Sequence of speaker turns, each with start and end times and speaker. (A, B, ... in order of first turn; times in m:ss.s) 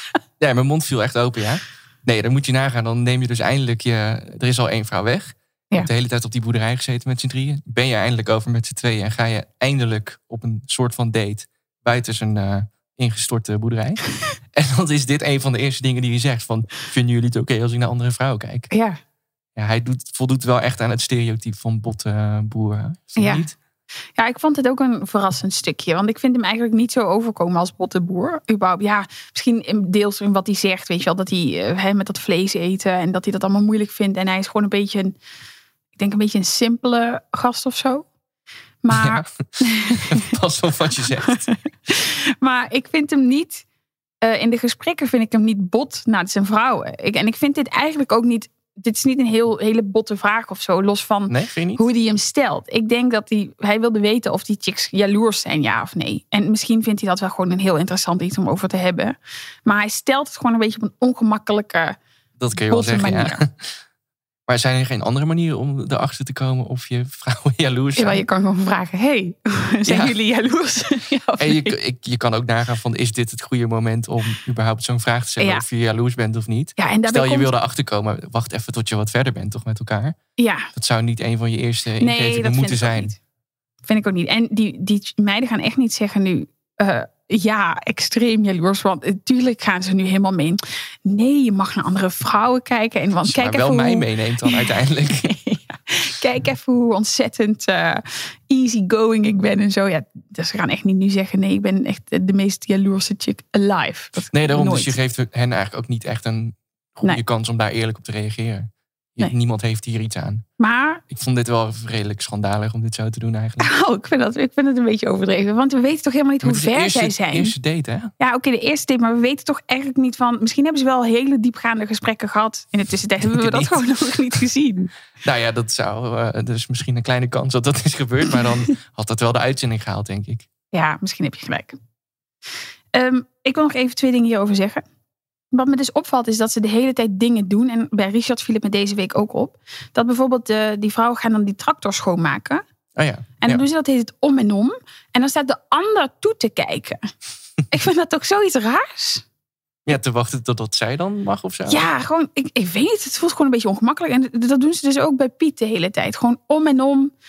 0:00.4-0:14.0 A
0:14.5-0:18.7 A
0:18.7-0:19.0 B
0:19.6-0:23.6 A
0:23.2-0:23.5 B
0:24.2-0:35.2 B
0:36.0-0:38.1 B
0:38.8-0:40.2 B
0:38.9-0:41.5 A
0:41.3-0:43.6 B
0:44.2-1:02.0 B
0:51.3-0:51.8 A
1:02.4-1:03.7 A
1:02.6-1:03.4 B
1:04.5-1:08.2 A
1:08.0-1:11.8 B
1:09.9-1:10.2 A
1:11.4-1:20.2 A
1:15.4-1:15.6 B
1:16.8-1:17.5 B
1:20.4-1:20.7 B
1:20.7-1:23.2 A
1:22.0-1:23.2 B
1:23.9-1:34.7 B
1:33.2-1:35.4 A
1:35.2-1:45.0 B
1:44.3-1:50.4 A
1:50.6-1:51.0 B
1:51.1-1:53.7 A
1:53.6-1:57.6 B
1:56.4-1:58.1 A
1:58.2-2:04.9 B
2:03.2-2:03.9 A
2:05.2-2:10.5 A
2:10.7-2:11.8 B
2:12.9-2:14.8 B
2:15.5-2:22.6 B
2:23.0-2:23.6 A
2:23.4-2:27.1 B
2:27.7-2:29.2 B
2:29.9-2:31.9 A
2:31.7-2:37.1 B